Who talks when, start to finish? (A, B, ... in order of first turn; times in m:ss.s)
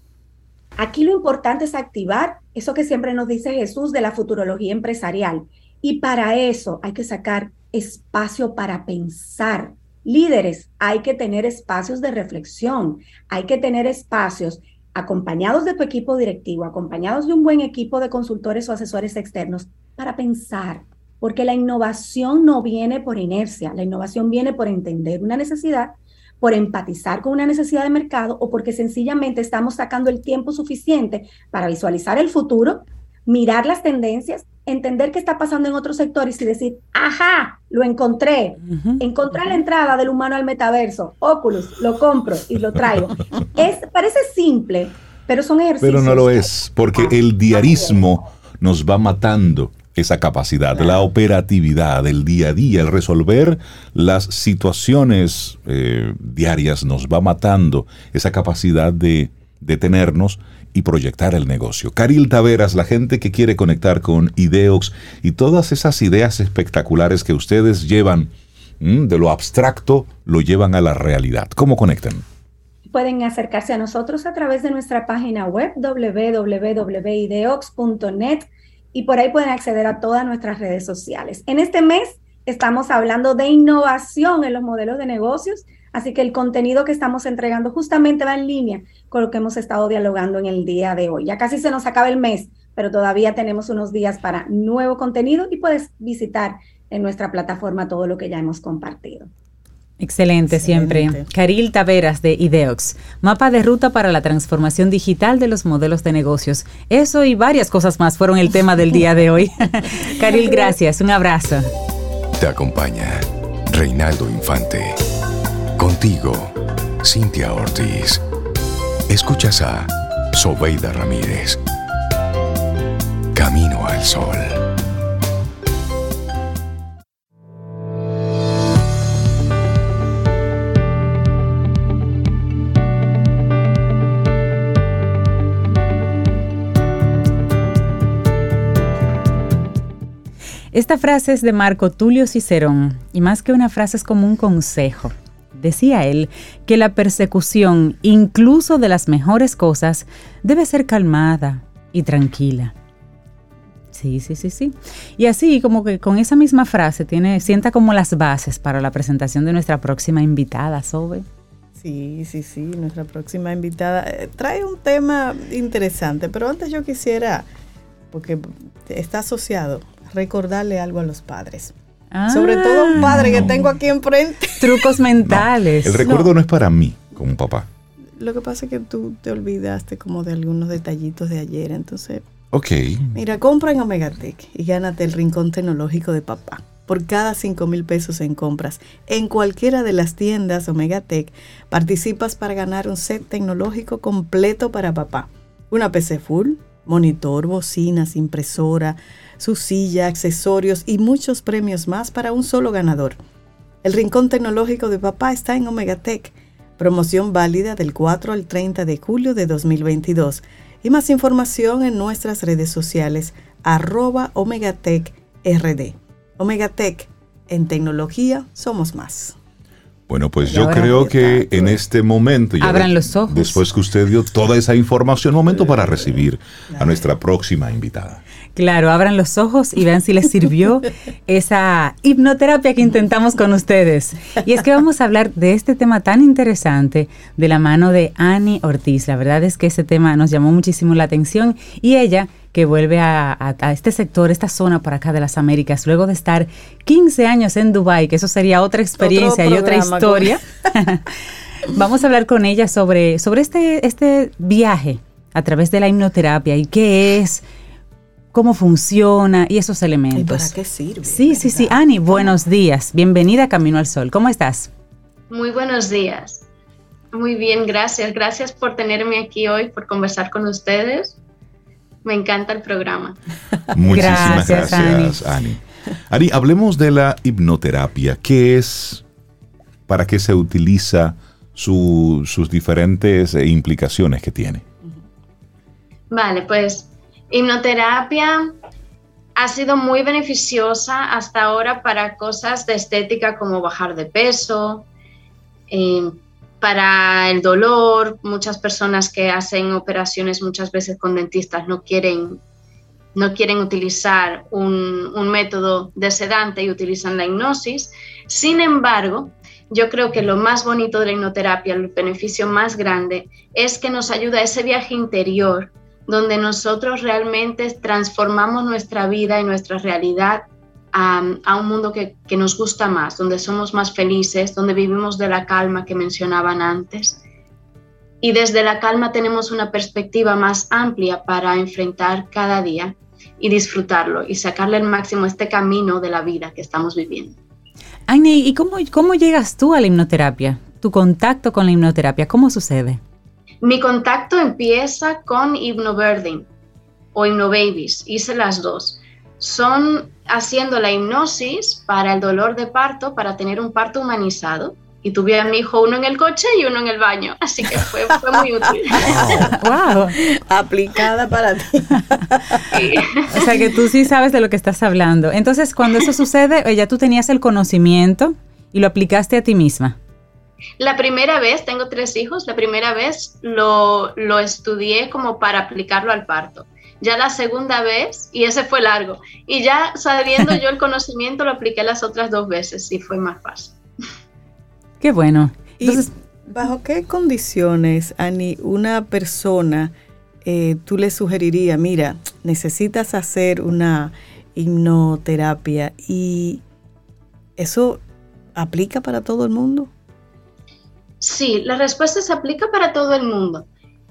0:00.8-0:47.1 A
0:38.8-0:39.0 B
0:45.8-1:12.2 C
1:12.9-1:39.3 A
1:40.0-1:51.7 B
1:40.5-1:41.2 D
1:50.3-1:50.7 D
1:52.4-1:55.0 E
1:55.8-1:58.2 E
1:59.1-2:01.6 E
2:03.3-2:04.6 E
2:20.7-2:32.7 B
2:33.9-2:41.2 B
2:41.8-2:47.5 D
2:48.1-2:51.7 D
2:52.1-2:53.5 B
2:52.3-2:55.0 D
2:53.0-2:53.5 C
2:54.6-2:56.0 B
2:55.2-2:57.7 C
2:56.0-2:56.3 D
2:58.2-3:02.2 D
3:02.5-3:03.1 C
3:03.1-3:23.2 D
3:23.8-3:39.4 D
3:40.1-3:48.2 C
3:40.5-3:41.5 B
3:42.6-3:43.6 B
3:46.7-3:47.0 D
3:48.6-4:11.1 B
4:09.0-4:10.7 D
4:11.6-4:17.4 B
4:18.3-4:24.7 B
4:20.1-4:22.3 D
4:25.3-4:26.4 F
4:27.1-4:31.2 F
4:32.0-4:33.2 F
4:33.7-4:39.0 C
4:33.9-4:35.2 B
4:39.9-4:44.6 C
4:46.1-4:48.5 F
4:49.4-4:54.9 F
4:55.7-5:02.4 F
5:03.1-5:27.2 F
5:28.2-5:37.4 F
5:38.1-5:43.0 B
5:43.6-5:46.5 F
5:47.1-5:59.2 F
5:58.3-6:02.6 D
5:59.1-5:59.5 C
5:59.6-6:00.2 B
6:02.7-6:03.7 F
6:03.3-6:10.0 B
6:10.8-6:23.8 F
6:25.0-6:26.1 B
6:25.8-6:36.6 D
6:37.6-6:38.0 D
6:38.5-6:39.9 D
6:41.2-6:43.7 F